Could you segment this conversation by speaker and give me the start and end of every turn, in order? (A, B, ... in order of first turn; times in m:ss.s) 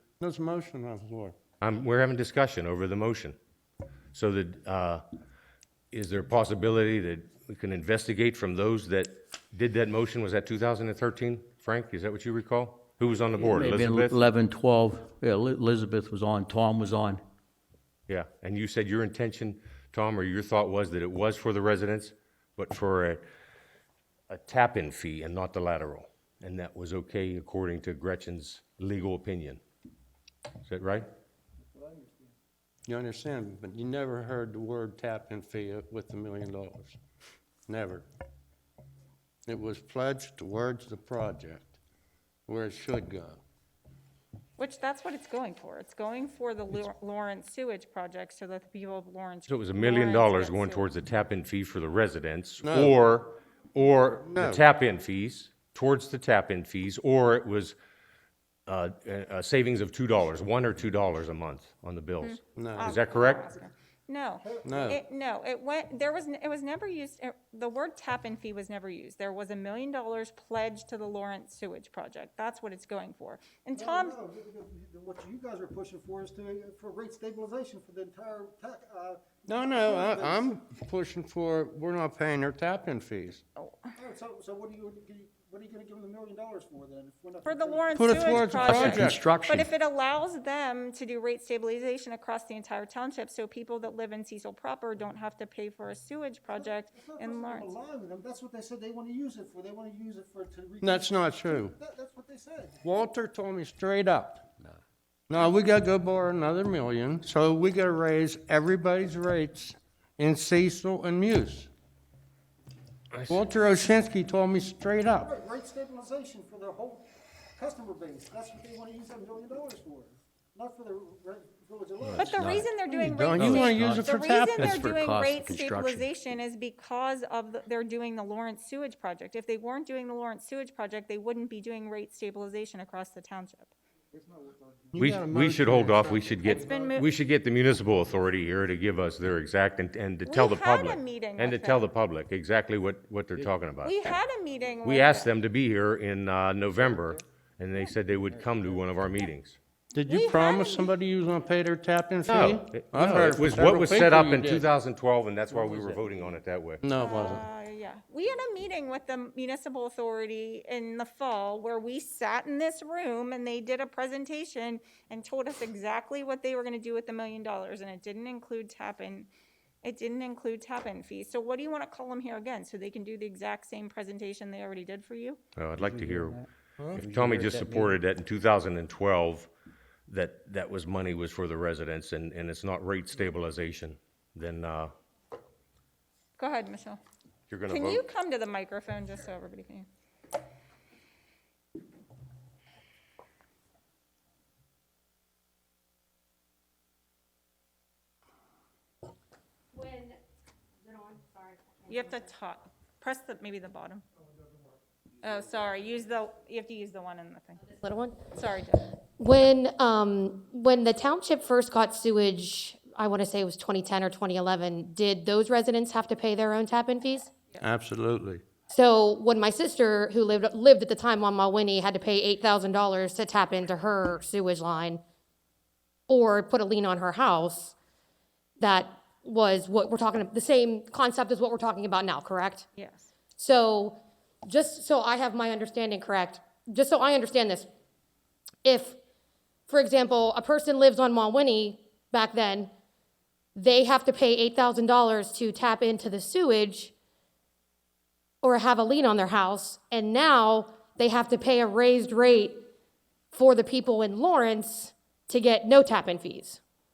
0:00.2-0:01.3 A
0:01.6-0:03.4 B
0:04.1-0:05.0 B
0:05.9-0:14.2 B
0:13.4-0:17.2 C
0:18.1-0:23.2 B
0:24.3-0:29.6 B
0:30.6-0:31.1 B
0:31.7-0:32.3 D
0:32.9-0:37.0 A
0:37.7-0:38.0 A
0:39.5-0:41.8 A
0:42.5-0:43.4 A
0:44.6-0:50.9 E
0:49.5-0:57.8 B
0:52.6-0:53.0 A
0:54.3-0:54.6 A
0:58.7-1:03.4 B
1:02.2-1:14.2 E
1:02.6-1:03.0 A
1:04.4-1:05.0 D
1:04.6-1:05.0 A
1:13.7-1:20.4 D
1:19.5-1:23.4 A
1:23.6-1:23.9 E
1:24.0-1:29.0 D
1:27.4-1:37.8 E
1:27.9-1:29.4 A
1:28.6-1:29.6 C
1:36.6-1:42.8 D
1:40.8-1:41.7 A
1:42.8-1:44.5 A
1:45.3-1:51.7 A
1:53.1-1:53.5 B
1:53.3-1:55.3 A
1:55.2-2:02.6 D
2:02.1-2:02.6 C
2:02.2-2:13.7 E
2:02.9-2:04.7 A
2:03.4-2:06.1 C
2:14.1-2:15.2 D
2:14.9-2:15.9 A
2:15.0-2:24.0 B
2:15.9-2:16.9 D
2:16.4-2:17.1 E
2:20.2-2:21.9 E
2:23.8-2:25.3 E
2:24.8-2:29.6 B
2:29.9-2:34.6 A
2:30.1-2:31.0 E
2:32.2-2:36.8 B
2:36.8-2:37.4 A
2:37.0-2:49.3 E
2:49.8-2:55.4 E
2:55.6-2:56.4 B
2:55.8-2:56.4 C
2:57.0-2:59.5 B
2:57.0-2:58.0 C
3:00.1-3:04.9 B
3:06.4-3:07.0 E
3:07.5-3:08.0 B
3:07.7-3:09.9 E
3:19.8-3:20.1 F
3:20.8-3:21.8 F
3:21.9-3:24.0 E
3:25.2-3:27.6 E
3:27.7-3:28.2 F
3:28.3-3:28.9 E
3:29.2-3:37.3 F
3:37.6-3:38.4 A
3:38.7-3:45.0 F
3:46.1-3:47.7 F
3:48.6-3:52.7 F
3:52.8-3:53.1 E
3:53.4-3:57.7 F
3:58.6-3:59.0 F
3:59.7-4:02.7 F
4:03.6-4:06.9 F
4:08.4-4:12.6 F
4:13.3-4:16.6 F